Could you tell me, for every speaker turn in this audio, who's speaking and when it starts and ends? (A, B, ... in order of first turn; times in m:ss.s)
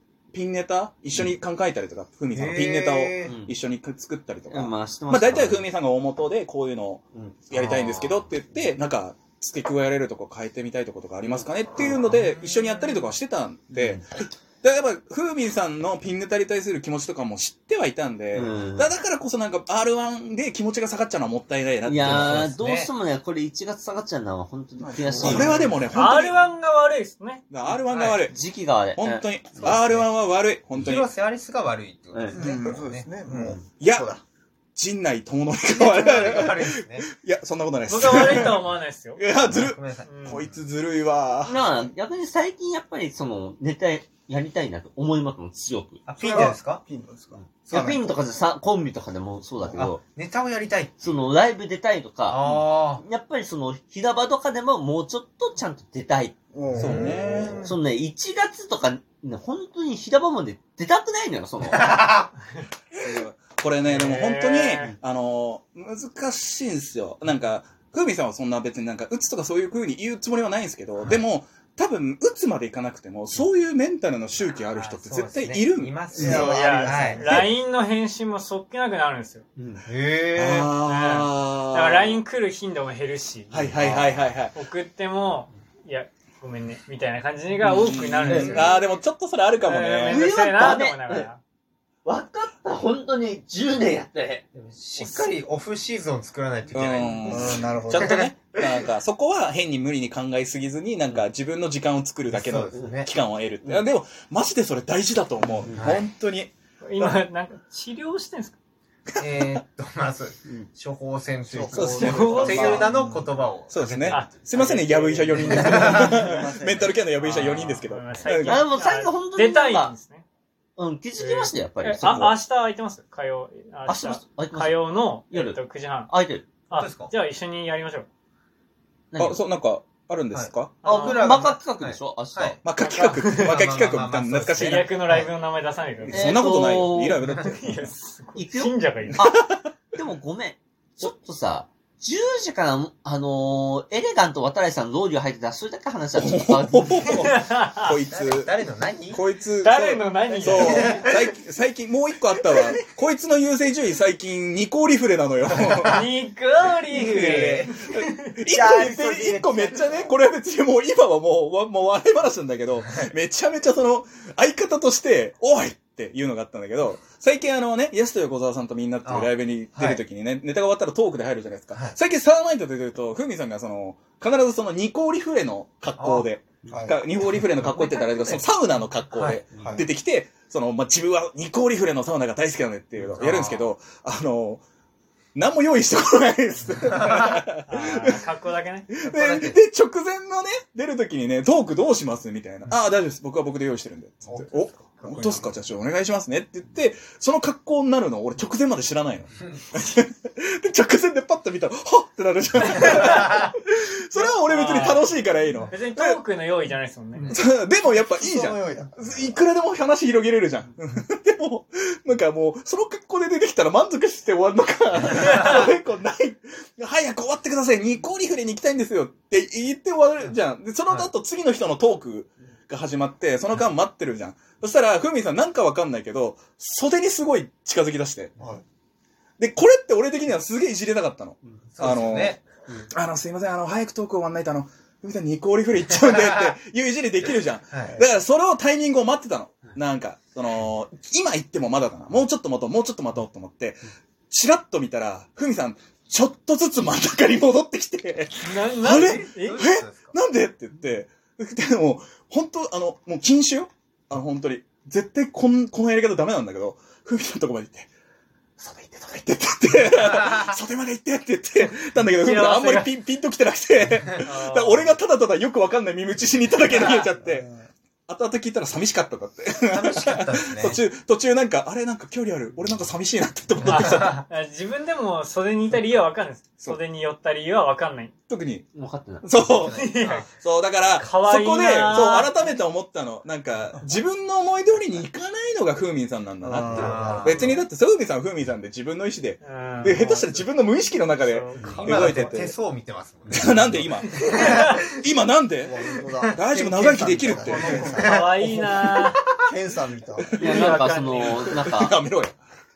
0:00.3-0:22.5 A
0:02.3-0:03.3 B
0:03.2-0:03.5 C
0:04.5-0:05.7 C
0:07.1-0:07.4 C
0:07.5-0:08.4 B
0:11.2-0:12.0 C
0:12.1-0:13.1 B
0:13.7-0:14.0 C
0:18.3-0:18.9 C
0:21.8-0:25.7 C
0:22.1-0:22.9 B
0:24.8-0:26.0 D
0:25.2-0:26.5 A
0:25.9-0:27.4 E
0:27.5-0:28.4 A
0:27.8-0:28.3 B
0:28.3-0:30.1 C
0:28.9-0:31.1 A
0:30.7-0:33.6 B
0:32.1-0:32.4 C
0:32.3-0:34.2 D
0:33.3-0:33.6 C
0:33.8-0:34.1 A
0:34.8-0:38.6 A
0:35.7-0:37.1 B
0:37.8-0:39.2 E
0:39.2-0:41.9 A
0:39.4-0:40.5 B
0:40.0-0:40.4 E
0:41.4-0:46.6 C
0:46.0-0:46.8 B
0:46.3-0:48.1 D
0:47.3-0:50.0 C
0:47.7-0:48.0 B
0:49.7-0:51.1 B
0:51.0-0:56.4 C
0:52.3-0:53.0 B
0:56.5-0:57.6 D
0:56.7-0:57.7 B
0:56.8-0:57.7 A
0:57.6-1:02.0 C
1:01.6-1:02.3 B
1:02.9-1:16.5 A
1:03.8-1:04.9 E
1:11.0-1:11.2 B
1:14.7-1:17.4 B
1:16.2-1:17.4 D
1:16.2-1:19.4 E
1:19.6-1:19.8 C
1:19.8-1:20.7 B
1:20.3-1:22.2 A
1:20.8-1:23.8 E
1:23.5-1:24.6 A
1:23.8-1:24.2 C
1:24.5-1:28.9 E
1:27.6-1:30.2 A
1:28.2-1:28.5 C
1:29.6-1:31.4 E
1:30.0-1:31.3 C
1:32.0-1:34.4 C
1:34.5-1:38.8 B
1:36.7-1:47.2 A
1:37.3-1:38.0 D
1:42.3-1:43.1 B
1:45.7-1:46.0 B
1:46.8-1:48.6 E
1:49.1-1:49.6 A
1:49.2-1:54.3 B
1:51.5-1:53.3 D
1:51.7-1:52.8 A
1:51.9-1:52.9 E
1:53.7-1:58.7 A
1:54.1-1:56.0 E
1:55.4-1:56.2 B
1:55.5-1:56.9 D
1:57.2-2:00.2 E
1:58.4-1:59.9 C
2:00.8-2:02.4 C
2:01.2-2:06.1 E
2:03.8-2:06.5 C
2:06.7-2:08.1 E
2:06.7-2:07.1 B
2:09.1-2:09.4 C
2:09.2-2:10.8 A
2:10.3-2:12.6 B
2:10.8-2:11.3 E
2:10.8-2:12.6 C
2:12.6-2:14.9 A
2:12.8-2:13.6 E
2:13.2-2:15.3 B
2:14.5-2:16.3 E
2:16.0-2:17.9 A
2:16.1-2:17.2 C
2:17.4-2:19.2 E
2:18.3-2:19.4 C
2:19.1-2:20.0 A
2:19.9-2:27.2 C
2:26.1-2:28.5 A
2:27.1-2:27.9 E
2:28.1-2:29.2 B
2:29.1-2:36.1 A
2:29.6-2:31.1 E
2:30.3-2:31.3 B
2:35.5-2:36.1 B
2:35.8-2:38.3 E
2:36.9-3:04.6 A
2:36.9-2:37.7 B
2:38.5-2:40.1 D
2:49.0-2:50.0 B
2:56.0-2:56.3 B
2:56.7-2:57.0 D
2:57.7-2:58.4 B
2:59.1-2:59.6 B
3:03.2-3:03.7 B
3:05.3-3:08.2 A
3:07.0-3:07.4 B
3:07.7-3:08.9 E
3:08.9-3:26.2 A
3:09.0-3:09.6 B
3:15.0-3:15.5 E
3:24.1-3:27.4 E
3:27.3-3:48.3 A
3:28.1-3:29.1 D
3:35.2-3:35.6 B
3:49.4-3:52.4 A
3:51.7-3:52.4 B
3:52.9-4:17.9 A
3:57.7-3:58.0 B
4:08.4-4:09.6 E
4:09.4-4:10.1 B
4:18.6-4:27.5 A
4:22.2-4:22.9 E
4:24.2-4:24.9 E
4:28.1-4:34.2 A
4:29.7-4:30.8 B
4:33.6-4:38.1 E
4:38.3-4:39.9 A
4:38.7-4:39.4 C
4:39.4-4:40.3 B
4:39.7-4:40.3 E
4:40.4-4:52.6 A
4:40.9-4:42.3 E
4:46.4-4:47.4 D
4:46.6-4:47.6 B
4:49.4-4:50.5 E
4:51.1-4:52.5 E
4:51.8-4:54.9 B
4:53.3-4:57.8 A
4:53.4-4:53.9 C
4:54.2-4:54.7 E
4:55.6-4:58.1 D
4:56.0-4:56.4 B
4:57.2-4:59.3 B
4:57.4-4:59.2 E
4:59.5-5:00.4 D
5:00.2-5:02.4 A
5:00.4-5:01.6 E
5:00.4-5:02.0 C